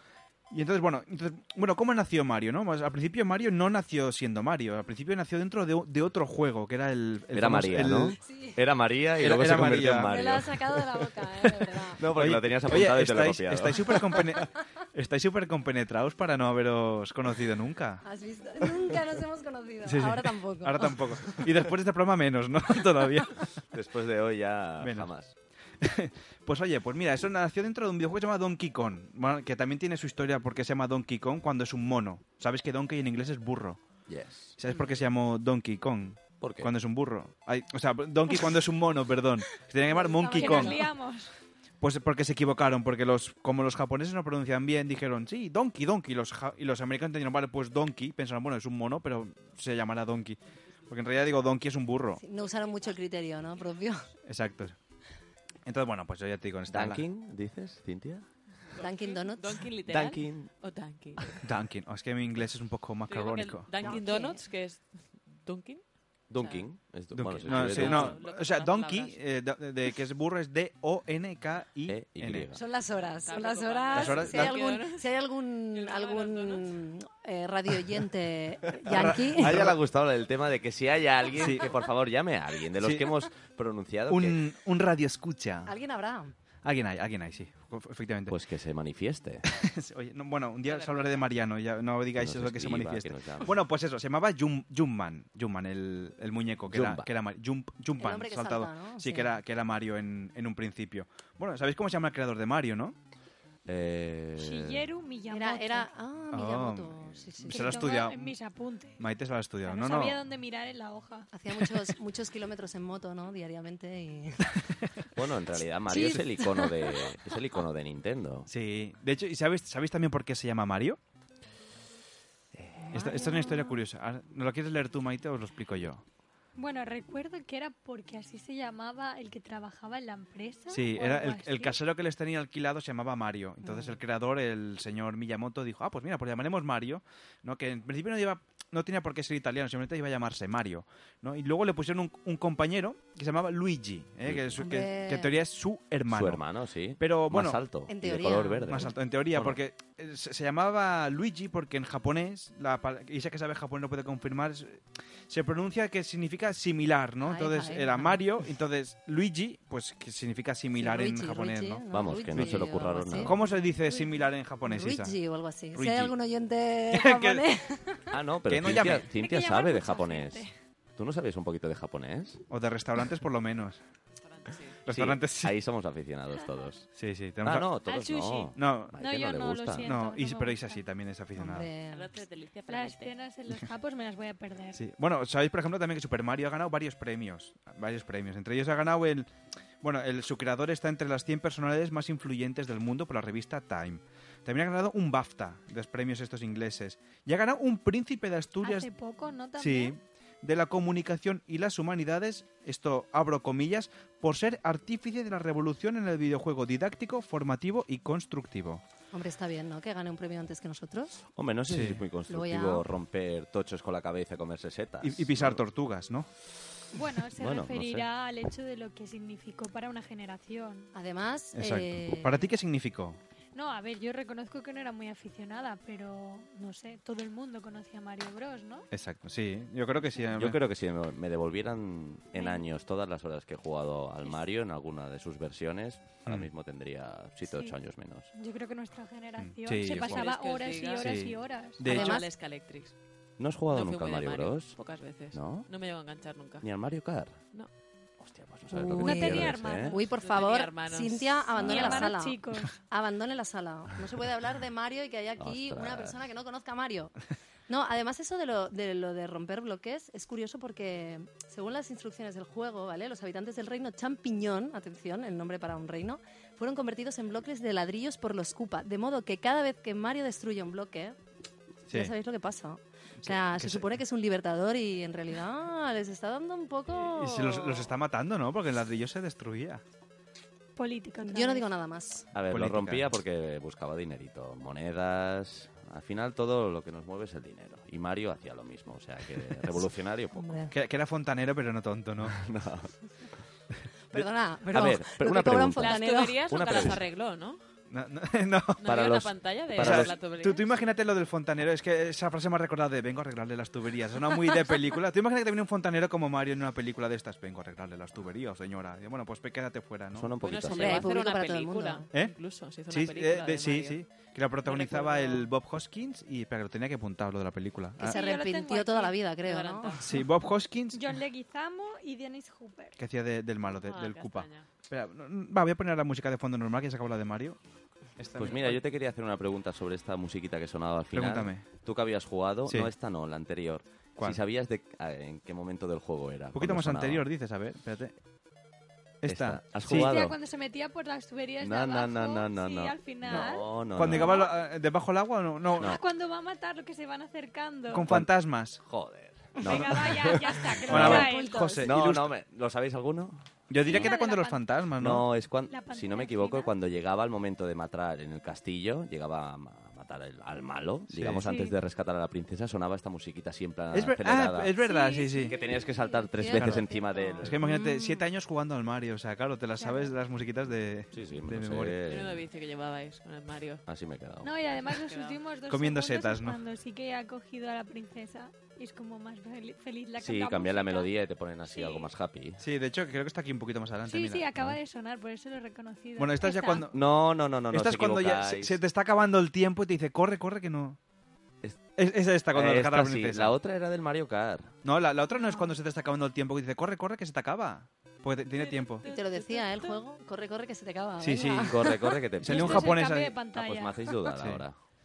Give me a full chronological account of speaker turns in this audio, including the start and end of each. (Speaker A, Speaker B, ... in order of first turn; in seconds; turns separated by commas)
Speaker A: 0.5-8.2, Speaker B: 7.3-11.1, Speaker C: 8.2-8.6, Speaker A: 9.2-10.2, Speaker C: 10.1-12.0, Speaker B: 11.9-14.0, Speaker A: 12.0-18.0, Speaker C: 18.0-21.0, Speaker A: 19.8-23.5, Speaker B: 23.7-25.3, Speaker A: 24.8-25.1, Speaker A: 25.8-33.8, Speaker B: 34.1-34.6, Speaker A: 34.6-40.8, Speaker B: 36.4-36.7, Speaker C: 39.8-40.9, Speaker D: 40.3-41.3, Speaker A: 41.8-50.4, Speaker A: 50.9-52.2, Speaker C: 52.2-54.1, Speaker A: 54.2-54.7, Speaker A: 55.6-57.0, Speaker B: 56.7-58.2, Speaker E: 58.7-61.4, Speaker C: 58.8-59.6, Speaker B: 59.9-60.5, Speaker A: 61.4-63.7, Speaker E: 63.1-65.8, Speaker C: 63.8-64.4, Speaker B: 66.3-68.2, Speaker E: 66.3-66.6, Speaker A: 67.1-72.5, Speaker E: 67.5-69.2, Speaker B: 71.9-72.6, Speaker C: 72.5-79.7, Speaker E: 73.2-75.0, Speaker A: 73.9-74.6, Speaker E: 75.7-76.7, Speaker A: 78.8-79.8, Speaker B: 78.9-84.4, Speaker A: 81.3-81.7, Speaker A: 82.8-83.2, Speaker A: 84.1-85.7, Speaker C: 85.7-86.3, Speaker A: 86.6-88.3, Speaker B: 88.3-89.5, Speaker A: 89.5-103.0, Speaker E: 90.6-91.2, Speaker B: 92.2-93.5, Speaker B: 96.7-97.1, Speaker C: 98.0-99.3, Speaker B: 103.7-104.9, Speaker D: 104.4-105.9, Speaker C: 105.3-107.8, Speaker A: 106.3-108.3, Speaker D: 107.5-109.1, Speaker A: 109.0-110.2, Speaker D: 109.6-111.3, Speaker C: 111.3-114.5, Speaker B: 115.1-118.5, Speaker C: 115.9-117.1, Speaker A: 118.5-121.0, Speaker A: 122.9-126.0, Speaker D: 122.9-123.8, Speaker D: 126.5-131.8, Speaker A: 130.7-146.4, Speaker B: 144.2-144.7, Speaker C: 144.6-145.3, Speaker B: 146.1-149.6, Speaker A: 147.0-147.6, Speaker C: 147.9-148.9, Speaker A: 148.7-165.1, Speaker C: 157.2-158.2, Speaker C: 160.8-163.4, Speaker B: 161.9-163.4, Speaker C: 164.6-168.1, Speaker A: 165.7-166.1, Speaker A: 166.9-167.4, Speaker B: 168.1-170.4, Speaker A: 168.4-169.1, Speaker D: 169.1-170.5, Speaker B: 170.9-172.4, Speaker A: 172.5-173.8, Speaker E: 174.2-174.8, Speaker A: 174.8-175.6, Speaker B: 174.9-176.9, Speaker A: 176.9-177.7, Speaker B: 177.4-179.9, Speaker D: 177.8-180.8, Speaker A: 178.5-179.0, Speaker A: 179.8-181.7, Speaker C: 181.4-182.1, Speaker E: 181.9-183.1, Speaker D: 182.7-184.8, Speaker A: 184.7-198.9, Speaker D: 198.6-200.0, Speaker A: 199.6-208.8, Speaker C: 209.1-211.1, Speaker B: 211.2-215.6, Speaker A: 211.7-212.0, Speaker C: 212.3-212.8, Speaker A: 215.0-216.3, Speaker D: 216.9-220.9, Speaker B: 217.3-218.1, Speaker C: 220.9-222.4, Speaker A: 221.5-223.2, Speaker D: 223.5-228.9, Speaker A: 228.9-230.6, Speaker B: 230.3-238.3, Speaker D: 232.3-232.7, Speaker D: 237.5-237.7, Speaker D: 238.3-242.0, Speaker A: 239.4-240.2, Speaker E: 239.8-242.9, Speaker A: 241.0-242.2, Speaker C: 241.8-242.2, Speaker B: 243.4-244.8, Speaker E: 243.7-246.7, Speaker B: 245.3-245.7, Speaker B: 246.6-247.4, Speaker B: 248.2-249.9, Speaker C: 248.7-257.1, Speaker D: 248.9-250.0, Speaker E: 250.1-252.1, Speaker D: 251.6-252.7, Speaker B: 255.4-256.2, Speaker C: 257.7-271.1, Speaker C: 271.9-277.9, Speaker A: 273.2-273.9, Speaker A: 277.0-279.8, Speaker D: 280.8-281.7, Speaker C: 281.2-282.3, Speaker B: 282.3-290.6, Speaker A: 282.4-283.2, Speaker C: 290.4-290.7, Speaker A: 290.7-292.4, Speaker B: 292.3-292.9, Speaker C: 294.1-296.9, Speaker B: 294.7-297.0, Speaker E: 295.8-297.6, Speaker A: 297.9-298.8, Speaker E: 298.8-300.7, Speaker B: 298.9-300.2, Speaker A: 299.8-310.3, Speaker B: 310.1-311.1, Speaker E: 310.4-314.0, Speaker C: 310.7-312.1, Speaker A: 312.9-318.2, Speaker E: 314.6-315.5, Speaker C: 318.0-320.0, Speaker D: 318.0-319.2, Speaker E: 319.4-320.1, Speaker A: 320.0-321.0, Speaker D: 320.9-323.0, Speaker A: 323.0-327.6, Speaker E: 323.8-324.7, Speaker A: 328.2-328.8, Speaker B: 328.4-337.2, Speaker A: 331.1-331.6, Speaker A: 332.6-332.9, Speaker A: 336.5-338.1, Speaker A: 339.2-340.2, Speaker B: 339.3-340.4, Speaker D: 339.9-344.6, Speaker B: 341.6-344.4, Speaker A: 343.2-346.0, Speaker D: 345.8-348.1, Speaker A: 347.9-348.8, Speaker B: 348.8-351.3, Speaker D: 349.6-351.8, Speaker A: 349.7-350.3, Speaker A: 350.9-352.3, Speaker C: 350.9-351.9, Speaker B: 351.8-354.1, Speaker A: 353.7-355.3, Speaker D: 353.9-354.8, Speaker B: 355.0-364.8, Speaker D: 355.7-356.7, Speaker A: 361.1-361.5, Speaker D: 361.4-361.7, Speaker A: 363.9-365.5, Speaker D: 364.8-366.0, Speaker B: 365.5-367.6, Speaker C: 366.0-368.2, Speaker A: 366.5-372.0, Speaker D: 369.8-370.1, Speaker B: 371.1-372.4, Speaker E: 372.1-373.8, Speaker B: 373.9-374.7, Speaker D: 374.4-381.1, Speaker E: 374.7-375.4, Speaker A: 375.7-376.6, Speaker B: 380.2-382.6, Speaker D: 381.7-382.1, Speaker A: 382.6-384.7, Speaker D: 384.1-386.9, Speaker A: 386.2-387.0, Speaker B: 386.9-388.8, Speaker A: 387.7-391.0, Speaker A: 391.9-393.6, Speaker B: 392.5-394.7, Speaker A: 394.8-399.0, Speaker D: 395.3-395.8, Speaker C: 399.1-402.0, Speaker A: 401.2-403.4, Speaker B: 401.4-404.8, Speaker D: 402.4-404.1, Speaker A: 404.3-404.6